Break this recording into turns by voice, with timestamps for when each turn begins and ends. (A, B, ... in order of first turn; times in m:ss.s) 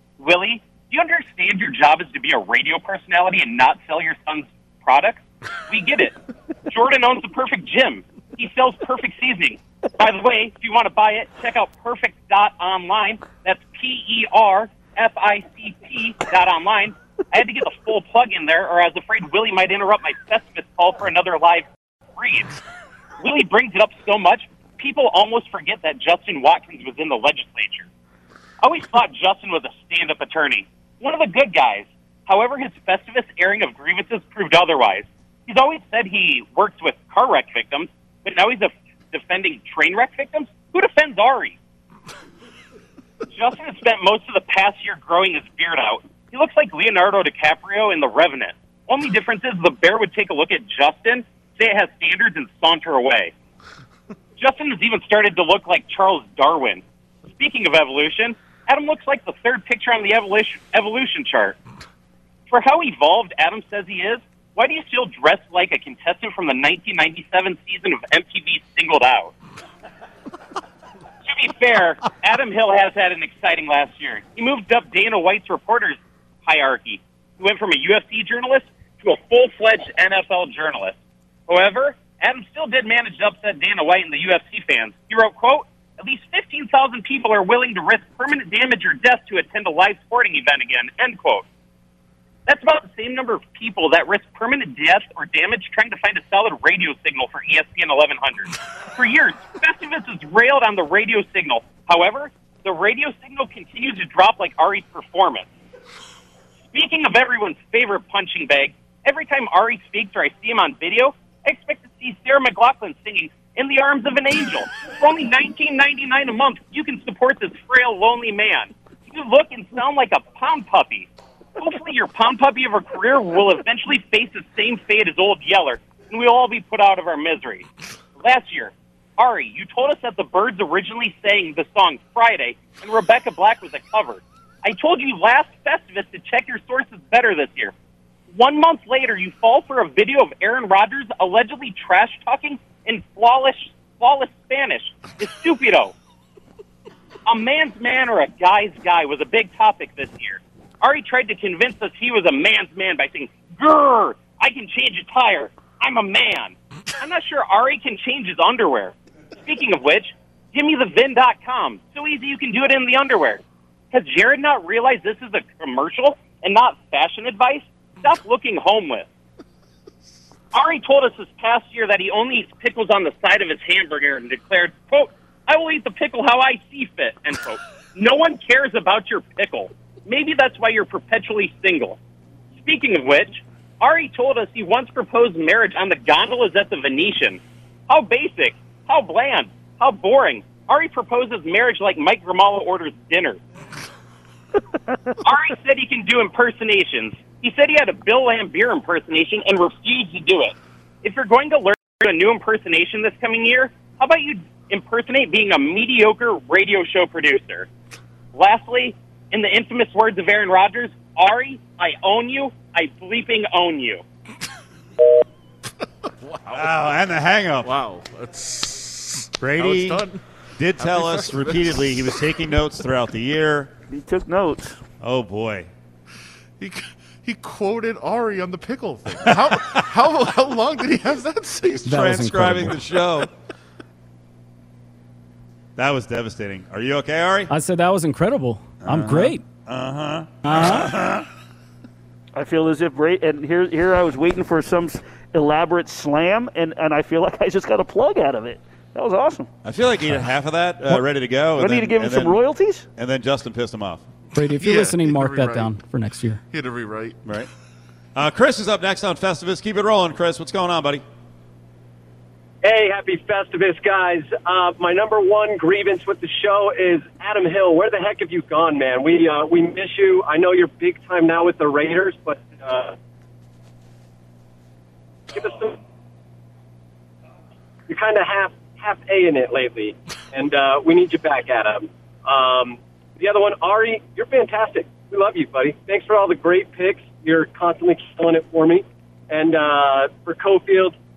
0:00.2-0:22.5 A
0:23.2-0:27.9 A
0:28.6-0:41.6 A
0:43.3-0:53.3 A
0:54.4-0:56.8 A
0:57.4-1:01.6 A
1:02.5-1:09.3 A
1:11.2-1:21.0 A
1:21.5-1:31.4 A
1:32.5-1:45.5 A
1:46.7-2:07.7 A
2:08.2-2:17.7 A
2:18.3-2:25.9 A
2:27.3-2:43.4 A
2:43.9-2:49.1 A
2:50.5-3:02.0 A
3:02.6-3:13.4 A
3:15.2-3:27.7 A
3:28.3-3:34.0 A
3:36.2-3:37.0 B
3:36.5-3:37.7 C
3:37.6-3:40.2 B
3:39.4-3:40.0 C
3:40.6-3:43.7 C
3:40.8-3:42.1 B
3:43.9-3:44.8 D
3:45.0-3:45.7 C
3:46.6-3:52.0 B
3:49.3-3:49.8 C
3:51.8-3:53.3 C
3:55.8-3:57.5 C
3:58.8-4:01.2 C
4:02.4-4:09.5 D
4:09.6-4:12.4 C
4:11.6-4:12.8 D
4:13.0-4:14.0 C
4:14.4-4:15.8 B
4:14.4-4:16.4 E
4:16.5-4:17.2 B
4:18.2-4:21.0 C
4:22.6-4:33.0 F
4:35.3-4:35.8 F
4:37.9-4:51.0 F